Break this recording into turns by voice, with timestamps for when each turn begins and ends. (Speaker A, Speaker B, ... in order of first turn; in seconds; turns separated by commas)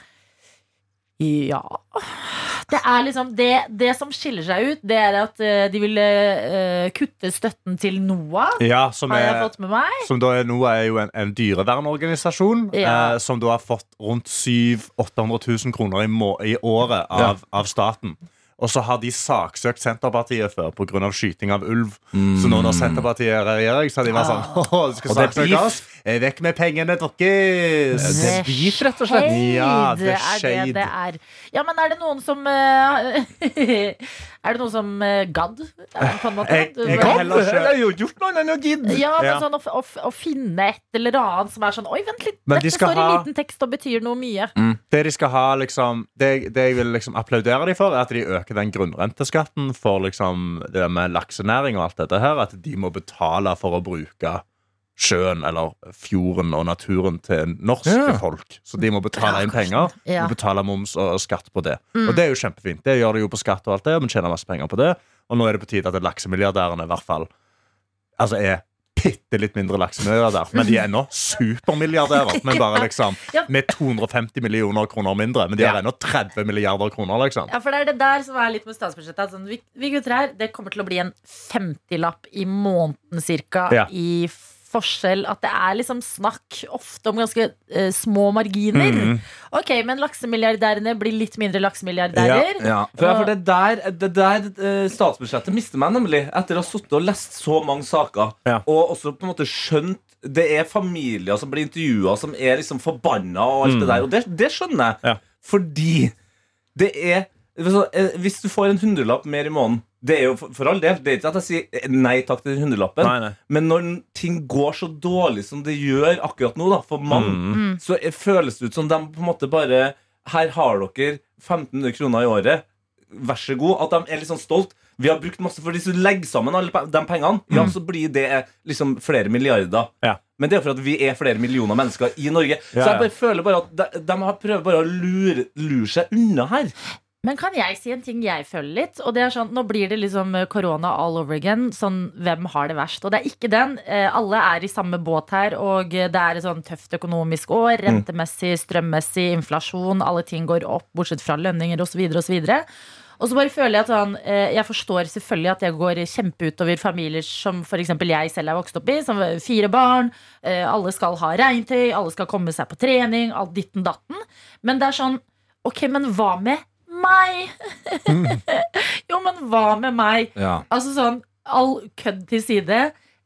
Speaker A: 1.2-10.1, Speaker B: 8.6-30.9, Speaker A: 12.7-13.2, Speaker C: 22.1-23.1, Speaker A: 24.1-24.6, Speaker C: 25.1-25.8, Speaker C: 28.0-29.4, Speaker A: 28.1-37.3, Speaker B: 36.0-37.8, Speaker C: 36.9-39.0, Speaker A: 38.9-44.5, Speaker B: 39.2-39.4, Speaker B: 42.5-43.3, Speaker B: 44.9-54.4, Speaker B: 55.0-67.3, Speaker C: 57.9-58.2, Speaker A: 59.1-60.3, Speaker A: 61.9-62.2, Speaker B: 68.2-77.5, Speaker A: 72.4-73.5, Speaker A: 77.5-93.3, Speaker B: 88.7-89.2, Speaker B: 92.1-92.5, Speaker C: 92.6-106.1, Speaker B: 103.6-104.0, Speaker C: 106.7-136.7, Speaker B: 113.0-113.3, Speaker B: 117.1-117.6, Speaker A: 117.5-117.8, Speaker B: 127.5-127.7, Speaker B: 132.7-133.1, Speaker A: 137.2-152.6, Speaker A: 153.2-172.9, Speaker C: 170.3-170.6